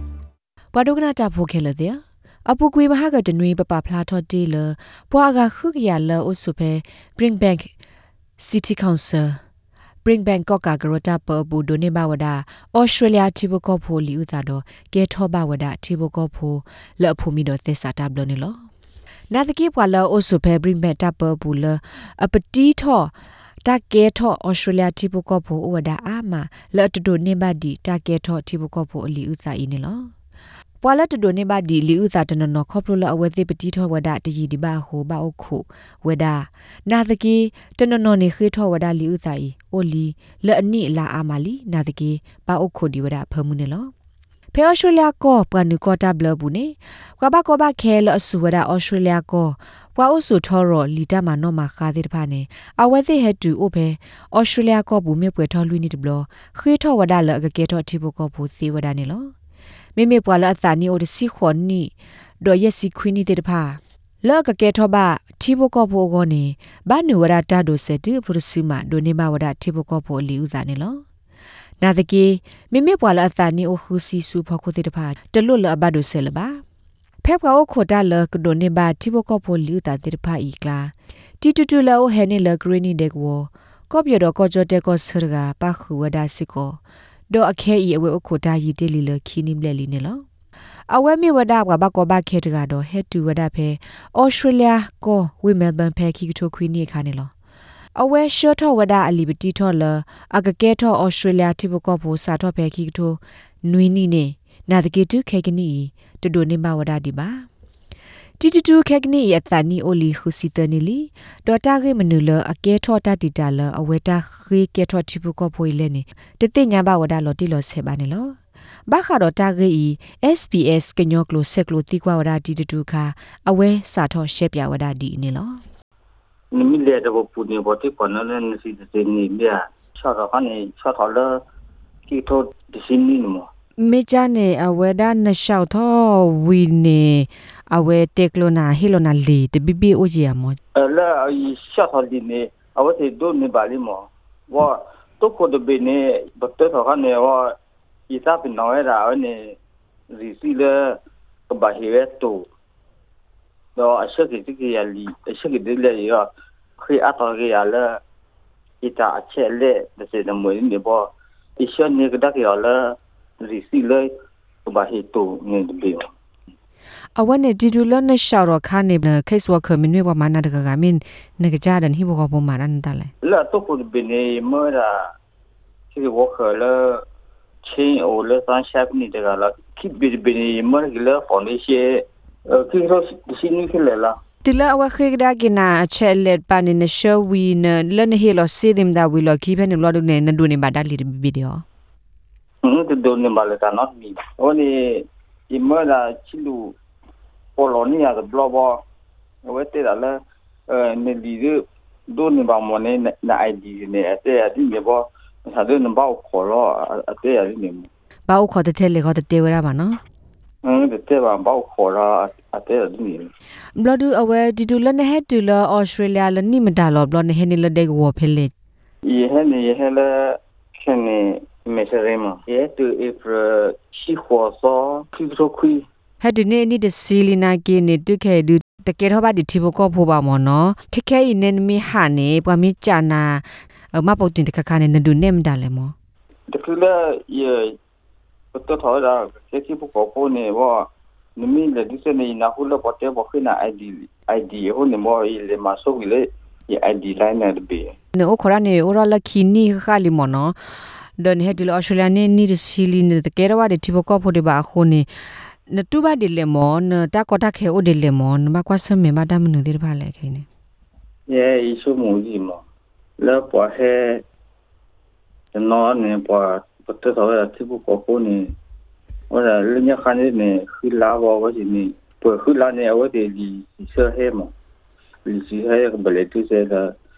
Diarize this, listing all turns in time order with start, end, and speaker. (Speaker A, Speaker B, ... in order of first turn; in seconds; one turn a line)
Speaker A: 0.7-7.7
Speaker A: 8.4-9.4
Speaker A: 10.0-18.6
Speaker A: 19.3-23.1
Speaker A: 23.6-30.1
Speaker A: 30.8-43.9
Speaker A: 44.5-59.3
Speaker A: 60.0-71.0
Speaker A: 71.8-76.6
Speaker A: 77.2-86.8
Speaker A: 87.3-90.2
Speaker A: 90.9-97.3
Speaker A: 97.9-107.5
Speaker A: 108.4-118.4
Speaker A: 118.9-125.6
Speaker B: 126.5-131.4
Speaker B: 132.1-133.5
Speaker A: 133.8-140.6
Speaker B: 140.7-147.5
Speaker B: 148.1-149.6
Speaker B: 150.1-152.4
Speaker B: 153.8-156.3
Speaker B: 156.8-158.0
Speaker B: 158.8-161.1
Speaker B: 161.6-164.1
Speaker B: 164.6-166.1
Speaker A: 167.2-173.1
Speaker B: 173.2-175.1
Speaker B: 175.9-177.0
Speaker B: 177.6-184.2
Speaker A: 184.4-191.6
Speaker B: 192.6-196.7
Speaker B: 197.6-198.8
Speaker B: 199.4-200.1
Speaker B: 200.7-201.6
Speaker B: 202.1-207.9
Speaker A: 208.3-210.0
Speaker B: 210.6-213.3
Speaker A: 213.8-218.5
Speaker B: 219.1-225.8
Speaker A: 226.2-235.9
Speaker B: 236.5-237.7
Speaker B: 238.5-247.9
Speaker A: 248.1-250.5
Speaker A: 251.2-255.1
Speaker A: 255.7-260.4
Speaker B: 261.3-262.6
Speaker B: 263.2-264.2
Speaker B: 265.5-268.5
Speaker B: 269.3-274.5
Speaker B: 275.2-276.9